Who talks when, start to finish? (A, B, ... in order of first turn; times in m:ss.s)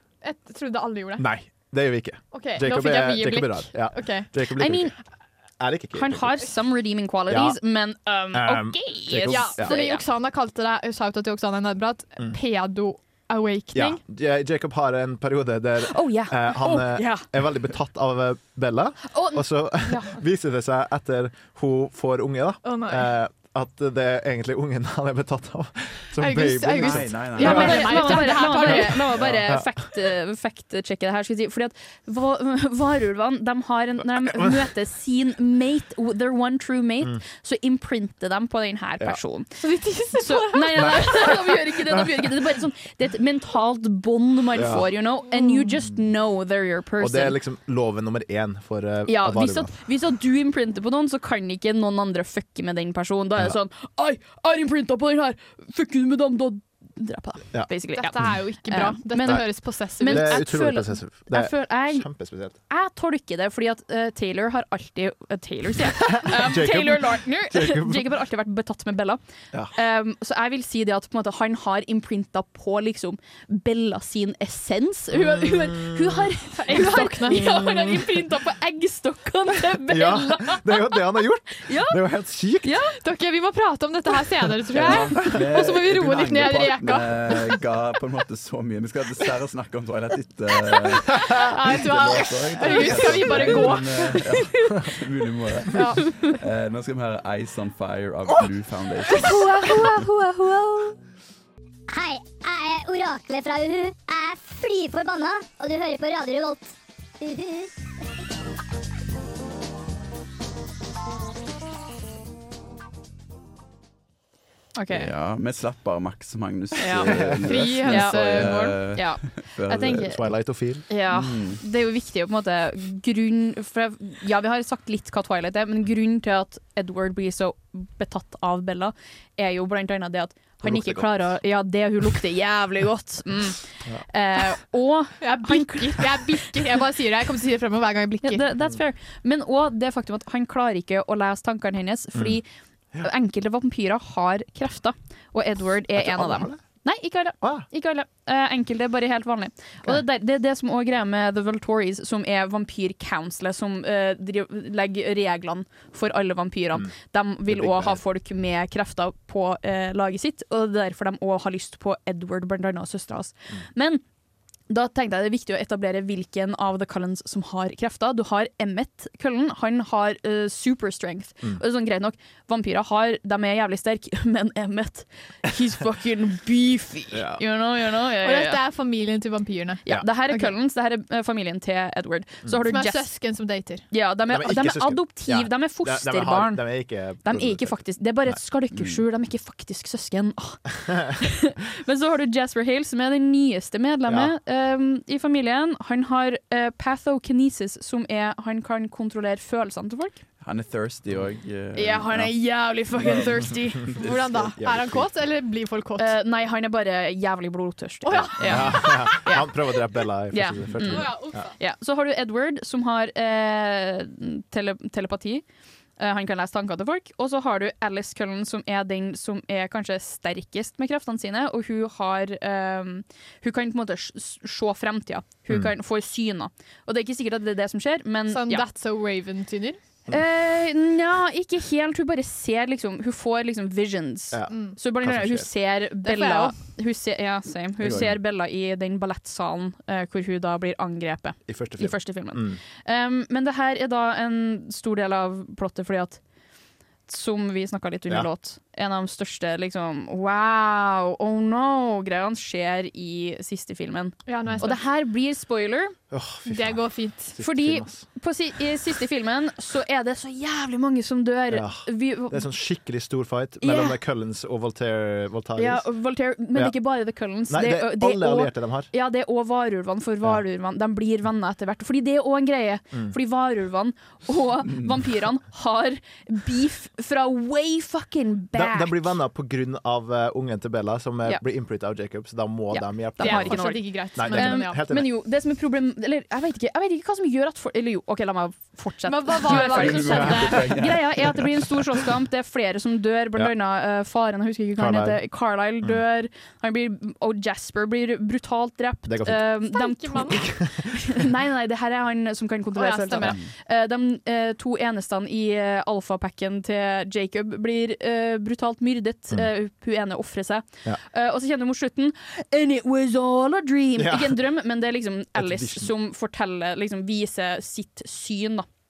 0:00.2-0:01.2 A
0:01.2-0:04.9 B
0:02.3-0:04.3 A
0:04.6-0:04.9 C
0:05.6-0:06.4 B
0:05.9-0:10.0 C
0:07.3-0:07.6 B
0:08.3-0:09.8 B
0:09.3-0:14.0 A
0:13.7-0:29.8 B
0:15.8-0:17.2 C
0:19.1-0:20.2 C
0:22.6-0:23.1 A
0:26.2-0:29.1 A
0:26.8-0:28.0 D
0:27.4-0:39.6 C
0:39.6-0:41.4 A
0:40.1-0:47.4 C
0:40.8-0:41.1 B
0:44.5-0:44.9 B
0:47.0-0:49.7 B
0:49.1-1:02.0 C
0:57.5-0:58.3 B
0:57.9-1:00.5 A
0:59.2-0:59.5 B
1:00.0-1:02.6 B
1:02.7-1:09.2 C
1:06.0-1:08.0 B
1:09.7-1:21.0 C
1:15.1-1:16.3 B
1:16.6-1:17.6 A
1:17.4-1:17.9 B
1:19.8-1:22.9 B
1:21.6-1:22.0 C
1:22.6-1:22.9 C
1:23.0-1:27.3 A
1:24.7-1:39.5 D
1:31.0-1:34.9 A
1:35.7-1:36.0 A
1:39.1-1:40.9 A
1:41.9-1:47.7 E
1:54.9-2:00.3 D
1:56.8-1:58.7 A
1:56.8-1:57.1 C
1:57.1-1:57.6 B
1:57.8-2:00.2 C
2:00.0-2:00.8 B
2:00.9-2:16.5 C
2:01.1-2:01.6 D
2:10.6-2:11.3 B
2:15.2-2:18.4 A
2:18.2-2:22.5 C
2:23.0-2:44.0 C
2:25.9-2:26.6 B
2:37.5-2:38.0 B
2:44.7-2:58.6 C
2:57.1-2:57.4 B
2:58.2-3:00.5 A
2:59.8-3:03.1 C
3:02.7-3:03.8 A
3:03.9-3:06.6 C
3:04.3-3:07.8 B
3:07.2-3:20.2 C
3:14.1-3:14.3 B
3:20.4-3:22.3 D
3:21.7-3:24.0 C
3:23.0-3:23.4 D
3:24.0-3:26.2 A
3:24.0-3:25.1 B
3:26.0-3:29.5 C
3:28.0-3:29.2 A
3:28.4-3:31.4 B
3:30.3-3:35.4 C
3:30.8-3:31.5 A
3:36.0-3:48.6 C
3:48.3-3:49.8 A
3:50.1-4:06.2 C
3:54.3-3:55.5 B
3:54.5-3:54.8 A
3:56.0-3:56.6 A
3:57.8-3:58.1 B
4:01.5-4:02.6 B
4:07.1-4:15.9 C
4:14.3-4:14.8 A
4:16.1-4:18.0 B
4:16.5-4:17.4 A
4:17.4-4:22.5 C
4:21.5-4:25.9 B
4:23.6-4:24.0 C
4:25.6-4:39.1 C
4:27.5-4:28.9 B
4:38.5-4:45.1 B
4:42.7-5:18.7 C
4:43.2-4:44.8 A
4:49.0-4:50.7 A
4:49.5-4:51.8 D
4:54.8-4:55.2 B
4:59.1-4:59.5 B
4:59.7-5:00.4 A
5:00.4-5:01.1 B
5:02.7-5:03.4 A
5:14.0-5:14.4 B
5:15.3-5:15.9 B